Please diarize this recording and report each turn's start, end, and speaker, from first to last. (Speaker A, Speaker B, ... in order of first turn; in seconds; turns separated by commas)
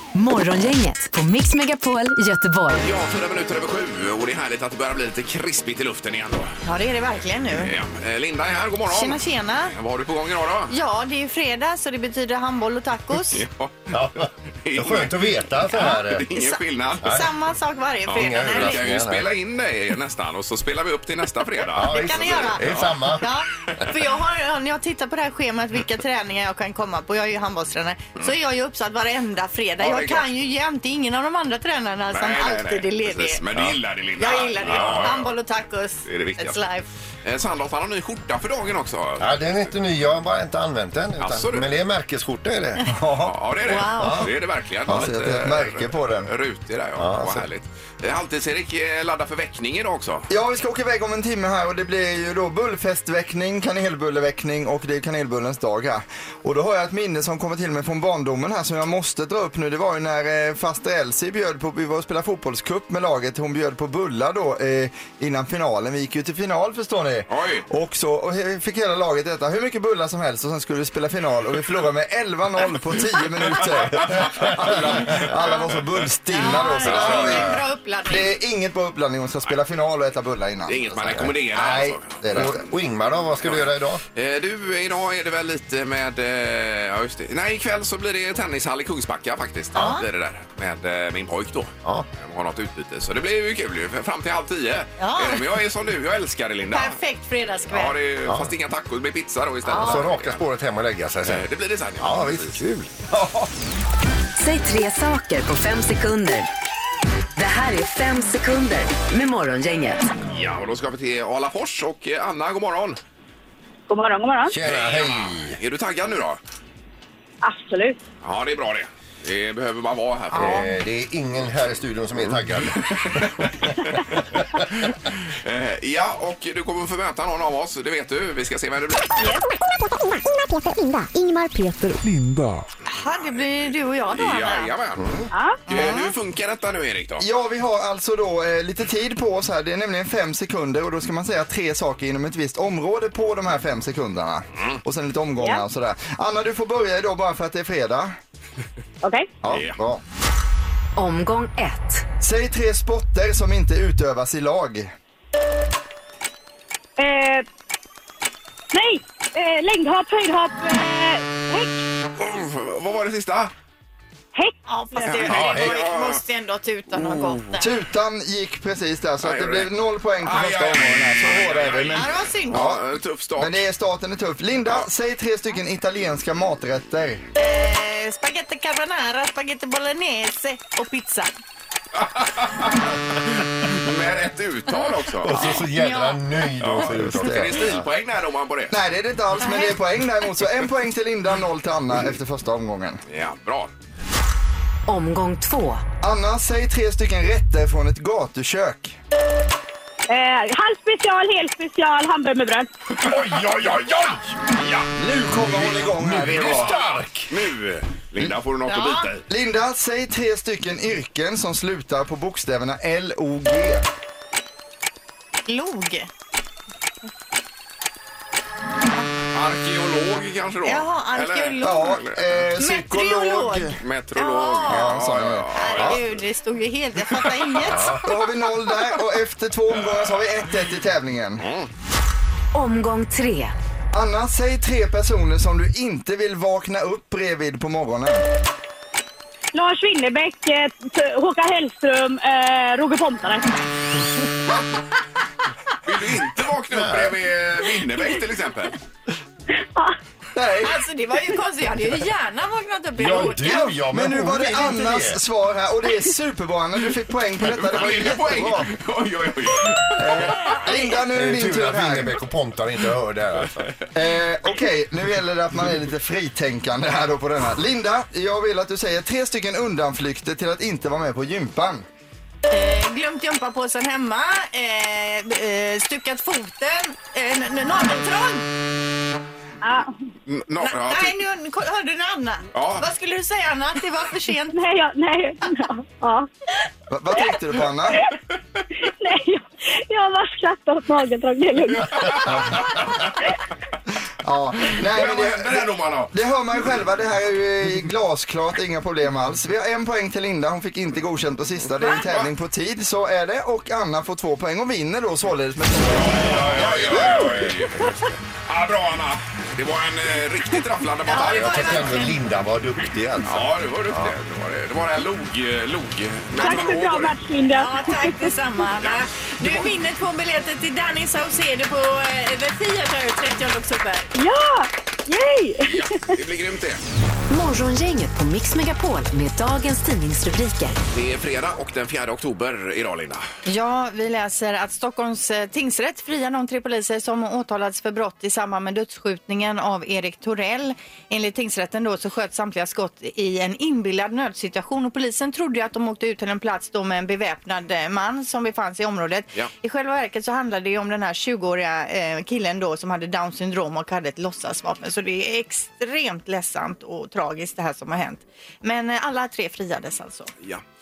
Speaker A: 0.1-2.9, Speaker B: 2.8-6.5, Speaker C: 6.6-7.7, Speaker B: 7.6-10.7, Speaker C: 8.9-9.7, Speaker C: 10.7-13.4, Speaker B: 13.2-13.9, Speaker D: 13.9-16.3, Speaker B: 14.7-17.2, Speaker C: 15.7-18.8, Speaker D: 17.0-17.3, Speaker B: 18.1-23.8, Speaker D: 18.1-19.3, Speaker D: 21.7-23.3, Speaker C: 21.8-33.4, Speaker B: 29.8-30.3, Speaker B: 32.1-35.4, Speaker C: 34.2-36.9, Speaker D: 34.6-35.2, Speaker B: 36.1-36.6, Speaker B: 37.2-39.3, Speaker D: 39.2-42.9, Speaker B: 41.2-41.7, Speaker E: 42.9-43.3, Speaker B: 43.2-50.3, Speaker C: 43.7-44.3, Speaker D: 44.0-44.3, Speaker D: 44.9-45.1, Speaker E: 44.9-46.3, Speaker D: 47.0-47.5, Speaker E: 50.3-82.6, Speaker B: 67.3-67.7, Speaker B: 74.0-75.8, Speaker D: 74.7-75.0, Speaker C: 76.3-78.3, Speaker B: 76.8-77.5, Speaker B: 80.7-82.7, Speaker D: 82.3-84.0, Speaker B: 83.4-97.0, Speaker C: 89.8-90.0, Speaker C: 95.0-95.5, Speaker C: 96.7-98.0, Speaker B: 97.7-100.4, Speaker D: 98.3-98.5, Speaker C: 99.7-100.0, Speaker D: 99.7-103.5, Speaker B: 101.2-102.6, Speaker A: 104.4-106.5, Speaker A: 107.4-110.0, Speaker B: 110.3-113.0, Speaker F: 113.9-114.5, Speaker D: 114.5-115.6, Speaker B: 114.6-116.4, Speaker F: 117.4-118.0, Speaker B: 118.2-120.7, Speaker D: 120.3-123.2, Speaker B: 123.0-124.0, Speaker B: 124.7-129.1, Speaker G: 129.2-132.0, Speaker C: 132.9-134.7, Speaker B: 134.1-137.2, Speaker D: 135.0-135.3, Speaker F: 135.3-135.6, Speaker C: 135.7-136.1, Speaker E: 137.2-148.2, Speaker F: 149.0-149.3, Speaker E: 149.4-150.0, Speaker B: 149.5-149.8, Speaker A: 151.0-152.1, Speaker E: 152.2-154.9, Speaker F: 157.0-157.5, Speaker F: 158.7-161.8, Speaker B: 162.2-163.5, Speaker F: 164.3-165.1, Speaker C: 164.7-167.7, Speaker B: 165.1-166.2, Speaker D: 165.2-165.8, Speaker E: 167.6-172.8, Speaker B: 169.2-173.6, Speaker C: 171.9-172.6, Speaker E: 173.4-177.2, Speaker C: 177.4-181.3, Speaker B: 181.9-182.9, Speaker B: 183.6-185.6, Speaker D: 185.2-187.9, Speaker C: 185.4-186.2, Speaker B: 186.6-188.8, Speaker E: 187.0-187.5, Speaker E: 188.7-193.0, Speaker C: 189.4-189.7, Speaker B: 193.1-193.7, Speaker A: 194.9-195.8, Speaker E: 196.0-199.0, Speaker F: 200.1-202.7, Speaker B: 203.0-204.8, Speaker E: 205.0-206.8, Speaker D: 205.3-207.4, Speaker B: 206.3-209.2, Speaker C: 208.7-209.1, Speaker E: 209.3-213.8, Speaker C: 215.5-216.1, Speaker B: 219.3-222.2, Speaker C: 220.6-221.9, Speaker E: 221.6-223.8, Speaker C: 222.6-225.0, Speaker B: 223.8-226.0, Speaker E: 224.7-225.9, Speaker C: 225.5-227.9, Speaker D: 227.6-228.1, Speaker E: 227.9-231.5, Speaker B: 229.8-230.2, Speaker B: 231.4-231.7, Speaker A: 232.5-233.6, Speaker E: 233.9-238.2, Speaker F: 239.5-243.6, Speaker B: 245.8-248.8, Speaker D: 246.7-247.2, Speaker E: 250.3-250.8, Speaker C: 250.6-253.7, Speaker D: 253.0-255.2, Speaker E: 253.4-258.7, Speaker B: 257.4-260.0, Speaker E: 260.0-262.2, Speaker D: 260.9-263.7, Speaker E: 263.9-271.9, Speaker C: 272.5-278.5, Speaker F: 279.6-280.0, Speaker B: 280.3-281.2, Speaker C: 280.6-284.6, Speaker B: 282.5-282.9, Speaker F: 284.5-286.3, Speaker E: 286.9-288.0, Speaker F: 288.8-292.7, Speaker B: 291.9-292.9, Speaker E: 294.2-307.6, Speaker B: 294.7-296.1, Speaker B: 301.9-302.3, Speaker B: 305.9-307.9, Speaker D: 306.7-307.4, Speaker B: 308.5-312.0, Speaker C: 311.1-312.2, Speaker D: 311.1-314.2, Speaker B: 313.3-317.1, Speaker F: 316.4-318.2, Speaker C: 317.6-324.1, Speaker B: 318.8-319.6, Speaker F: 324.1-326.2, Speaker B: 325.7-326.8, Speaker A: 327.3-330.8, Speaker B: 330.9-333.3, Speaker C: 333.5-360.3